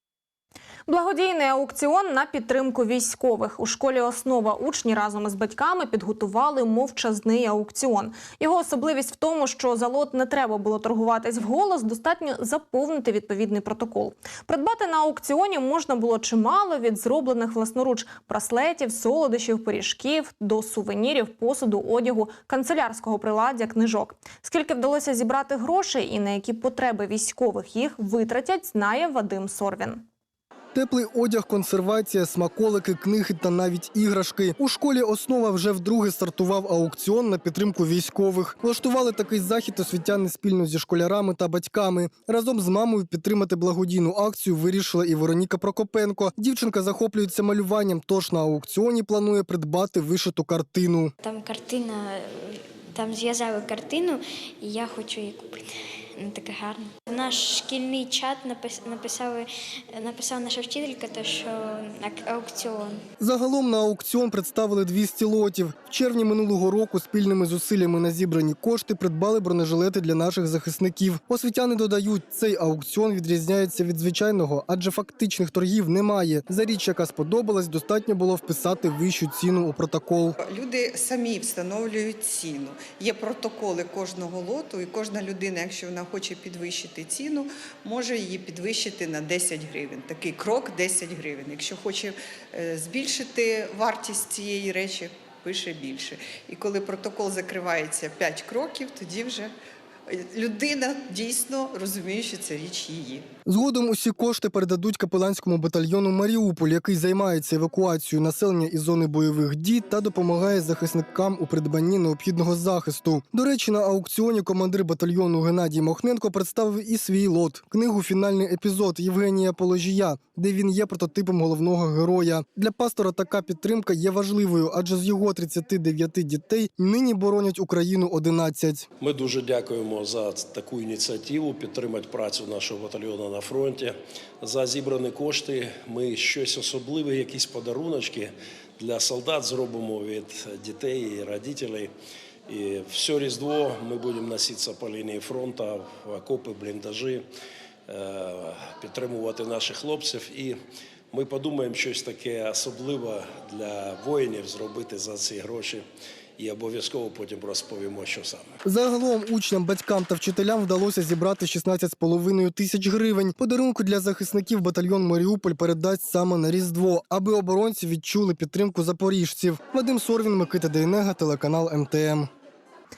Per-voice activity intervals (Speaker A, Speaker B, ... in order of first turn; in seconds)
Speaker A: 0.9-30.1
Speaker B: 30.7-51.1, 63.2-80.4, 103.5-128.9, 158.6-172.3
Speaker C: 51.2-55.6, 56.2-63.0
Speaker D: 80.4-99.5, 100.1-103.3
Speaker E: 129.0-141.9, 142.5-147.2, 147.9-150.6, 151.1-155.8, 156.4-158.5